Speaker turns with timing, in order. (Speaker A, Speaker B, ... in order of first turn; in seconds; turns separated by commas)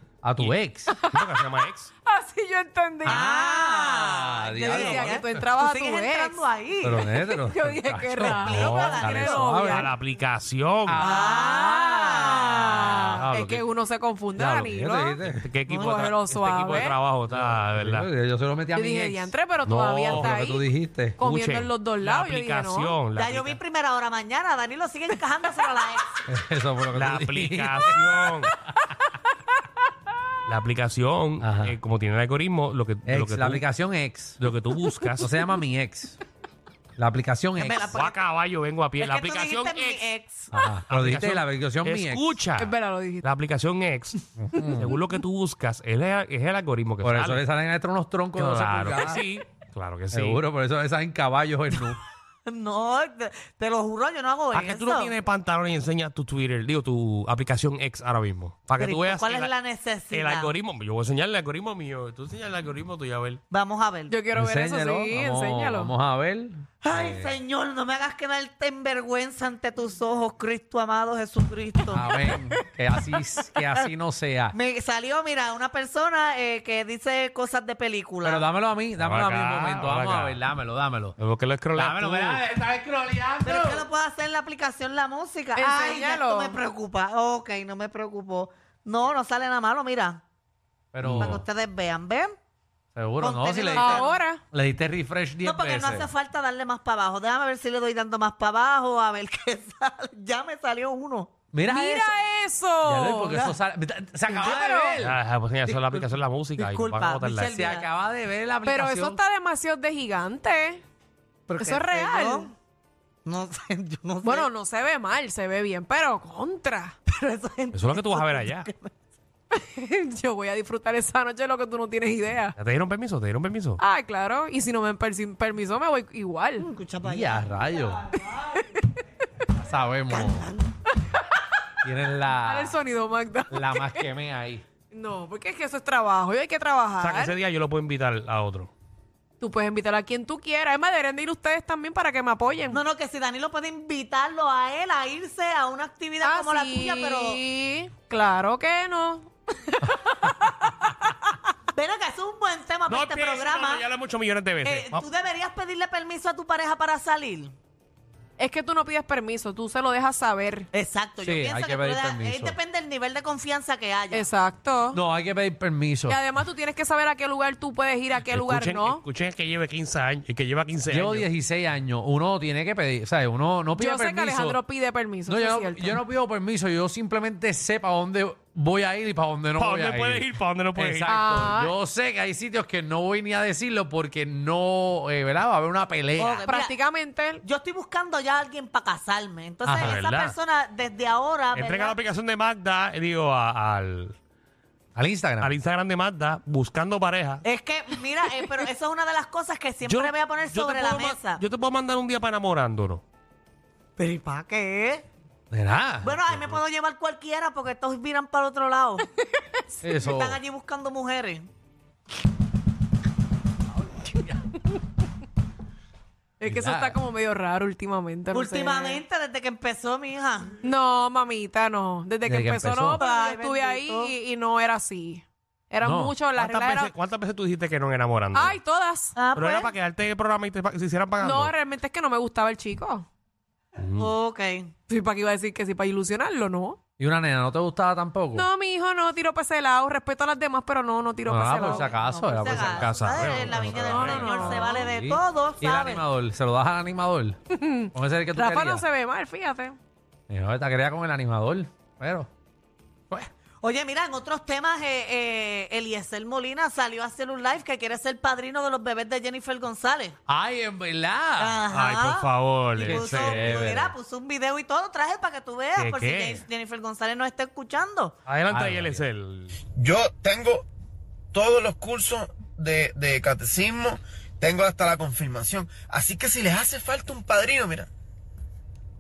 Speaker A: 0.2-0.9, Speaker B: 0.9-1.5, Speaker C: 1.1-1.9, Speaker B: 2.1-4.0, Speaker D: 3.0-7.0, Speaker A: 4.0-5.5, Speaker B: 4.6-6.5, Speaker A: 6.8-9.9, Speaker B: 7.0-9.9, Speaker D: 8.2-9.5, Speaker C: 8.4-11.1, Speaker A: 10.9-12.3, Speaker D: 11.0-12.9, Speaker B: 11.4-17.0, Speaker C: 13.1-13.6, Speaker A: 14.4-15.5, Speaker C: 15.2-18.1, Speaker A: 17.3-19.3, Speaker B: 18.7-20.7, Speaker C: 19.6-20.4, Speaker A: 20.0-21.2, Speaker B: 21.2-23.0, Speaker C: 21.2-23.6, Speaker D: 23.1-26.1, Speaker A: 26.3-28.0, Speaker C: 26.9-28.5, Speaker C: 30.5-33.6, Speaker A: 31.4-31.8, Speaker A: 33.1-34.4, Speaker C: 34.4-35.3, Speaker A: 35.2-36.2, Speaker A: 37.0-38.0, Speaker D: 37.6-38.2, Speaker C: 37.9-40.0, Speaker D: 39.0-40.5, Speaker A: 40.5-42.4, Speaker C: 40.9-47.4, Speaker B: 42.6-43.3, Speaker A: 44.4-44.9, Speaker B: 44.5-44.9, Speaker A: 47.0-49.2, Speaker C: 48.4-50.4, Speaker A: 50.1-52.0, Speaker D: 52.5-55.1, Speaker C: 54.5-59.5, Speaker D: 58.8-60.5, Speaker C: 60.1-63.4, Speaker D: 63.5-64.2, Speaker B: 64.1-65.9, Speaker A: 64.3-67.4, Speaker D: 66.8-72.1, Speaker A: 71.9-74.5, Speaker D: 74.5-78.5, Speaker A: 78.2-81.2, Speaker C: 79.0-80.4, Speaker C: 81.2-82.4, Speaker A: 81.8-83.9, Speaker D: 83.4-90.2, Speaker B: 85.5-86.6, Speaker A: 90.9-91.4, Speaker C: 91.0-91.4, Speaker D: 91.2-92.3, Speaker A: 93.0-96.1, Speaker D: 93.2-94.1, Speaker B: 93.7-94.4, Speaker D: 95.4-101.3, Speaker A: 101.5-102.2, Speaker B: 101.6-103.5, Speaker A: 102.8-105.2, Speaker B: 104.3-105.0, Speaker C: 105.0-107.5, Speaker D: 106.6-107.9, Speaker A: 107.5-109.2, Speaker B: 108.7-110.8, Speaker D: 111.5-112.5, Speaker B: 111.6-112.5, Speaker D: 113.2-114.5, Speaker B: 114.2-117.0, Speaker D: 117.1-118.9, Speaker C: 117.7-118.7, Speaker B: 119.5-122.5, Speaker C: 122.6-123.8, Speaker B: 123.8-126.7, Speaker D: 126.6-128.6, Speaker A: 127.0-128.1, Speaker B: 128.3-128.6, Speaker A: 129.5-130.5, Speaker D: 130.1-130.7, Speaker A: 131.8-132.8, Speaker B: 132.4-134.1, Speaker A: 133.5-134.6, Speaker B: 134.9-137.4, Speaker C: 137.0-138.7, Speaker B: 139.4-142.8, Speaker D: 142.7-147.4, Speaker B: 146.2-151.3, Speaker D: 151.8-153.9, Speaker C: 152.9-155.1, Speaker D: 154.6-157.5, Speaker B: 158.4-160.7, Speaker D: 160.7-164.3, Speaker A: 161.2-162.6, Speaker B: 164.1-165.0, Speaker A: 164.9-166.2, Speaker B: 166.1-169.0, Speaker C: 168.2-171.3, Speaker A: 170.9-174.6, Speaker B: 173.8-176.0, Speaker A: 175.3-186.5, Speaker C: 179.6-181.1, Speaker B: 181.1-181.8, Speaker D: 186.2-186.8, Speaker B: 186.5-187.4, Speaker D: 187.4-192.0, Speaker A: 189.6-190.0, Speaker C: 189.8-190.4, Speaker C: 191.5-194.2, Speaker A: 195.0-195.5, Speaker C: 195.4-197.4, Speaker D: 197.4-201.4, Speaker C: 199.8-203.0, Speaker D: 204.0-205.1, Speaker A: 205.5-206.4, Speaker D: 206.0-209.1, Speaker B: 209.2-210.0, Speaker A: 209.8-210.4, Speaker D: 210.0-211.5, Speaker B: 216.4-219.0, Speaker A: 216.5-217.0, Speaker D: 218.3-220.6, Speaker B: 220.6-226.9, Speaker A: 222.3-223.0, Speaker D: 223.0-224.2, Speaker A: 225.8-226.1, Speaker C: 226.4-228.6, Speaker B: 228.3-229.2, Speaker D: 229.2-229.7, Speaker C: 229.3-231.5, Speaker B: 231.2-233.1, Speaker C: 233.8-234.1, Speaker D: 234.0-234.7, Speaker B: 234.9-236.8, Speaker A: 237.0-238.5, Speaker B: 238.3-242.5, Speaker A: 241.3-247.4, Speaker D: 241.9-246.0, Speaker C: 242.5-244.5, Speaker B: 243.7-244.9, Speaker B: 247.5-249.8, Speaker A: 247.9-248.9, Speaker A: 250.3-252.3, Speaker D: 253.6-260.2, Speaker A: 260.3-261.6, Speaker D: 261.4-268.2, Speaker C: 261.7-263.5, Speaker A: 262.8-263.9, Speaker C: 265.8-266.4, Speaker C: 268.3-269.6, Speaker A: 268.5-269.1, Speaker E: 269.8-270.7, Speaker E: 271.3-277.9